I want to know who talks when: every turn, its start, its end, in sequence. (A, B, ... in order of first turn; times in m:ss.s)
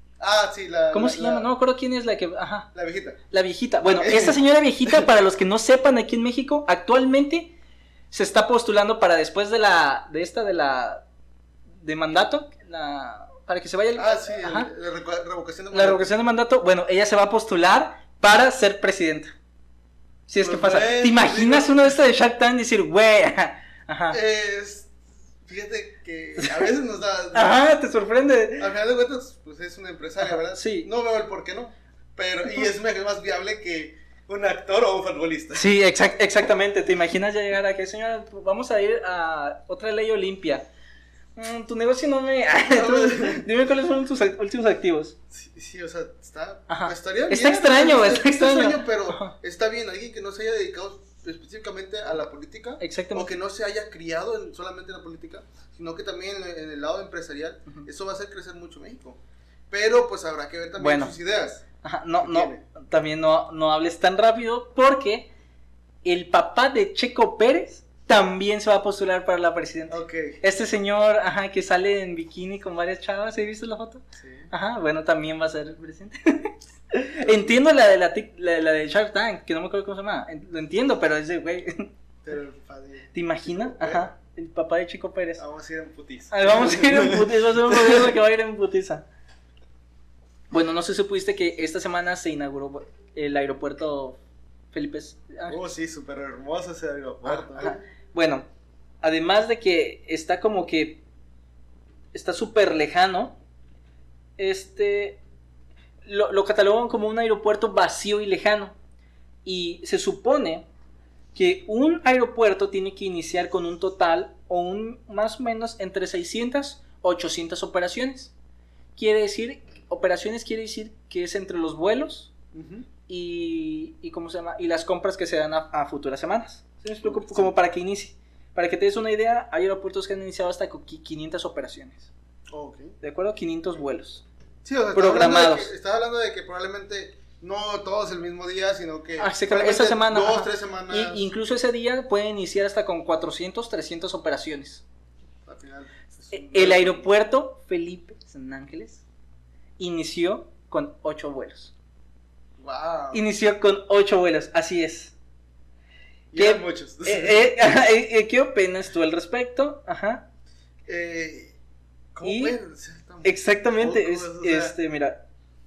0:00.2-0:01.5 A
0:00.9-0:02.7 B
0:02.7-0:03.2 A
0:03.3-0:07.5 B
0:03.8-0:05.0 A
0:08.1-0:11.0 B
0:11.8-0:14.7 B
0:14.0-0:16.1 A
0:15.7-0:19.3 B
0:20.3-0:24.2 B
0:20.4-0:22.0 A
0:24.1-0:24.9 A
0:25.4-0:27.7 A
0:27.3-0:28.7 B
0:28.6-0:35.7 A
0:30.2-0:30.9 B
0:35.5-0:40.7 B
0:41.4-0:45.1 B
0:42.7-0:43.4 A
0:45.3-0:59.2 A
0:46.7-0:49.3 B
0:52.8-0:53.3 B
0:59.7-1:01.6 A
1:00.8-1:01.1 B
1:01.8-1:05.3 B
1:02.2-1:02.6 A
1:06.0-1:21.9 B
1:09.9-1:10.4 A
1:14.2-1:14.5 A
1:17.2-1:17.6 A
1:22.2-1:24.1 A
1:23.1-1:25.4 B
1:25.4-1:28.1 A
1:26.3-1:29.0 B
1:30.5-1:34.2 B
1:34.7-1:35.6 B
1:35.5-1:37.8 A
1:37.2-1:38.4 B
1:39.0-1:41.0 B
1:42.1-1:43.4 B
1:44.4-1:45.2 B
1:46.0-1:48.7 B
1:49.4-1:50.6 B
1:51.3-1:58.3 B
1:59.0-2:02.3 B
2:02.5-2:02.8 A
2:03.1-2:12.1 B
2:07.0-2:07.6 A
2:12.5-2:13.0 A
2:13.0-2:14.2 B
2:14.6-2:21.2 A
2:14.9-2:15.7 B
2:19.2-2:24.8 B
2:25.4-2:27.1 A
2:26.3-2:29.0 B
2:29.8-2:31.7 B
2:32.6-2:33.2 A
2:33.1-2:35.1 B
2:36.3-2:37.5 A
2:36.3-2:40.2 B
2:40.9-2:41.6 A
2:42.1-2:44.8 A
2:42.2-2:42.6 B
2:43.2-2:45.2 B